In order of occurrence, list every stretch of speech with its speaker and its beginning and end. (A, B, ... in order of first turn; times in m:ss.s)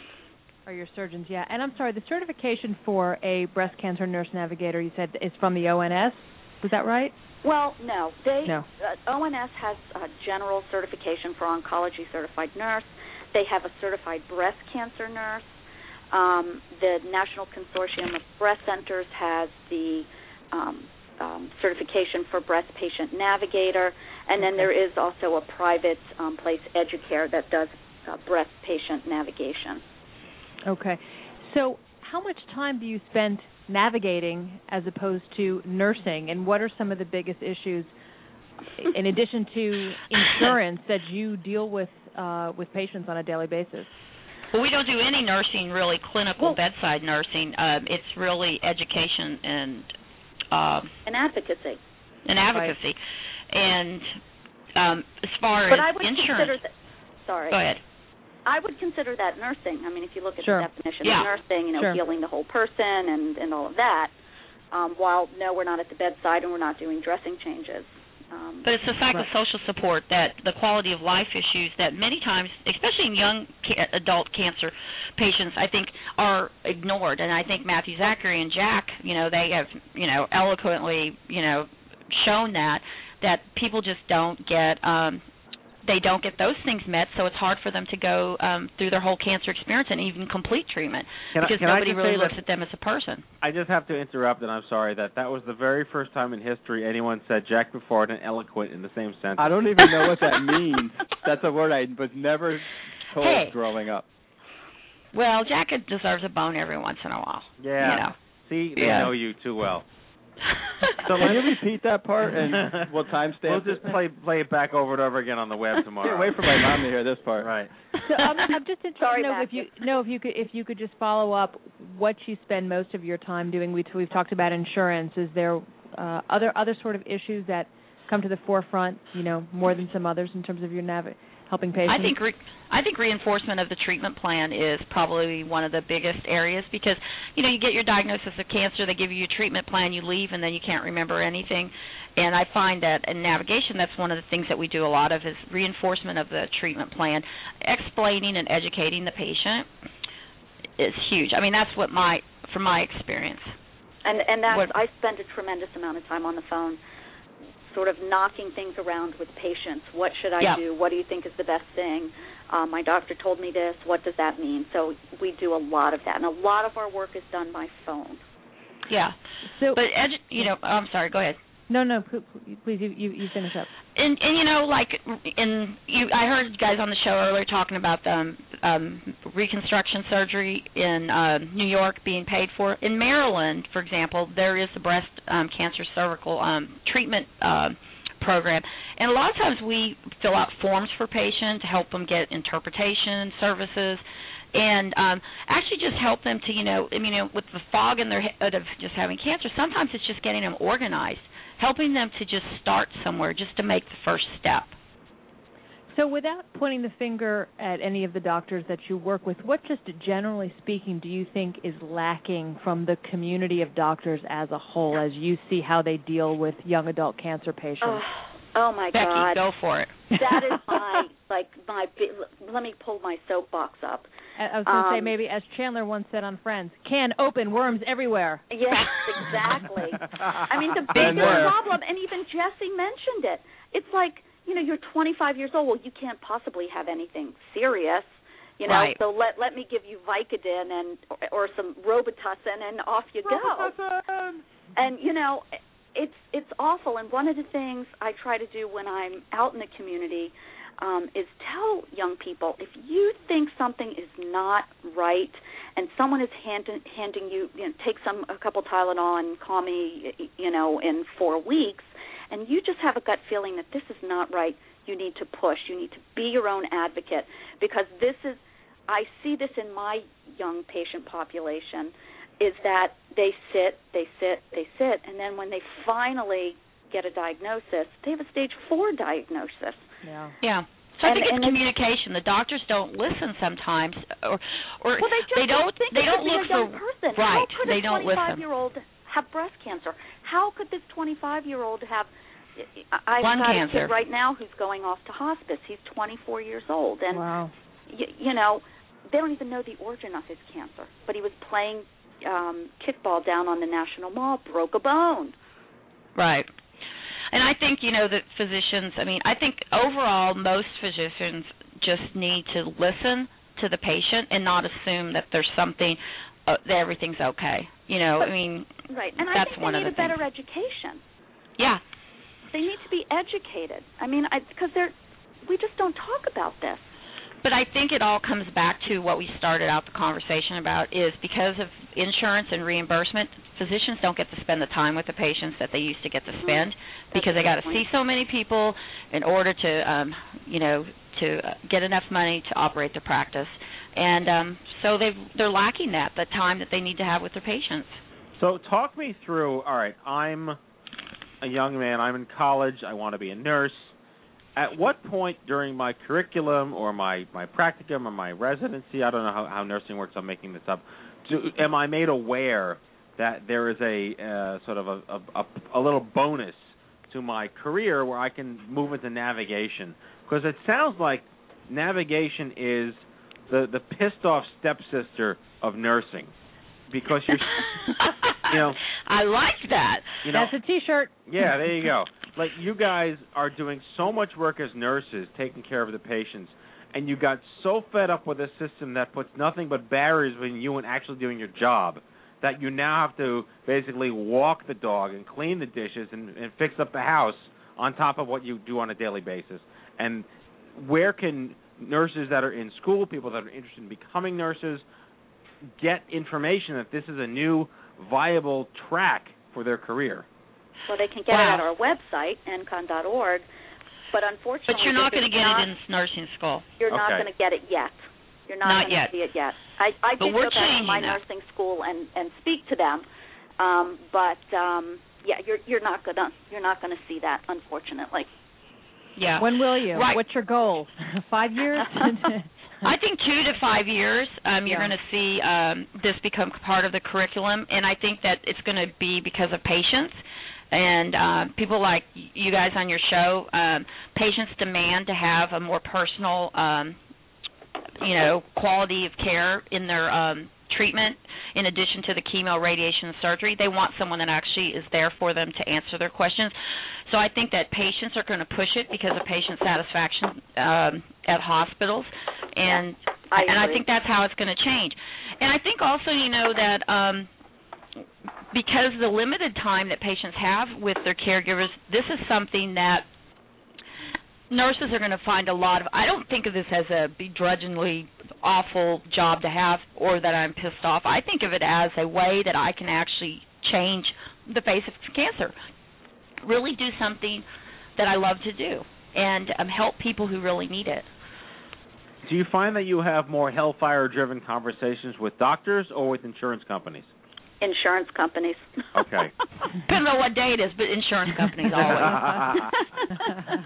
0:00.6-0:07.1 A
0:07.4-0:15.6 B
0:16.1-0:29.8 B
0:24.4-0:24.7 A
0:30.6-0:37.9 A
0:38.8-0:43.9 A
0:44.5-0:49.9 C
0:50.5-0:50.9 C
0:51.0-0:51.8 B
0:52.2-0:53.0 C
0:53.5-0:54.2 C
0:54.8-0:56.6 C
0:55.6-0:56.7 B
0:57.2-0:57.6 B
0:57.5-0:57.8 C
0:58.4-1:04.1 B
1:00.4-1:00.7 A
1:01.0-1:01.3 C
1:04.7-1:08.7 B
1:08.6-1:25.2 C
1:25.8-1:33.2 C
1:31.3-1:32.4 D
1:33.4-1:39.5 D
1:39.4-1:44.0 E
1:43.2-1:43.6 C
1:45.1-1:48.1 C
1:47.6-1:49.8 D
1:48.7-1:49.1 C
1:51.0-1:51.4 D
1:51.2-1:53.9 E
1:52.5-1:56.6 D
1:56.0-1:57.5 E
1:57.4-1:57.7 D
1:58.0-2:12.1 A
1:59.0-1:59.7 B
2:11.8-2:29.7 C
2:30.8-2:33.5 C
2:34.0-2:36.8 B
2:34.5-2:34.8 C
2:37.6-2:48.2 B
2:48.9-2:49.1 C
2:49.4-2:49.8 A
2:49.7-2:51.4 C
2:51.7-2:53.7 A
2:54.0-3:14.0 C
3:14.5-3:24.7 C
3:25.9-3:38.0 A
3:37.8-3:39.4 B
3:38.9-3:40.8 C
3:40.2-3:44.1 B
3:44.4-3:49.6 A
3:44.6-3:45.1 B
3:48.5-3:58.1 B
3:50.9-3:51.6 E
3:51.0-3:51.3 C
3:58.6-4:03.8 B
3:58.6-3:59.0 C
4:04.7-4:39.9 B
4:40.0-4:40.3 A
4:40.4-4:48.4 C
4:41.0-4:41.6 B
4:45.0-4:57.2 B
4:53.2-4:53.9 C
4:57.1-4:57.5 A
4:57.9-5:05.3 B
5:06.1-5:06.5 C
5:07.3-5:20.2 C
5:18.9-5:21.0 B
5:22.5-5:24.9 B
5:25.4-5:26.9 B
5:27.4-5:48.0 C
5:36.4-5:37.9 B
5:48.4-5:50.6 D
5:51.4-5:53.9 D
5:54.6-6:16.3 D
6:16.9-6:17.6 D
6:18.0-6:20.3 C
6:18.5-6:18.8 D
6:20.2-6:20.5 D
6:20.3-6:21.5 A
6:21.2-6:44.8 D
6:45.8-6:50.2 D
6:50.9-6:53.4 B
6:51.3-6:51.7 C
6:54.1-6:55.7 B
6:54.7-6:56.6 C
6:56.8-7:03.0 B
6:56.9-6:57.3 D
6:58.6-6:59.2 C
7:00.2-7:01.2 C
7:03.6-7:08.3 B
7:09.2-7:10.2 C
7:09.4-7:12.5 A
7:12.8-7:20.2 C
7:14.6-7:14.9 A
7:20.7-7:27.0 C
7:28.0-7:36.5 C
7:37.0-7:47.3 C
7:42.6-7:43.8 B
7:48.5-7:53.1 C
7:54.5-8:05.5 C
8:06.4-8:07.4 C
8:08.0-8:11.1 C
8:12.2-8:17.1 D
8:17.6-8:19.2 B
8:18.9-8:19.3 D
8:19.8-8:22.4 C
8:21.7-8:22.9 D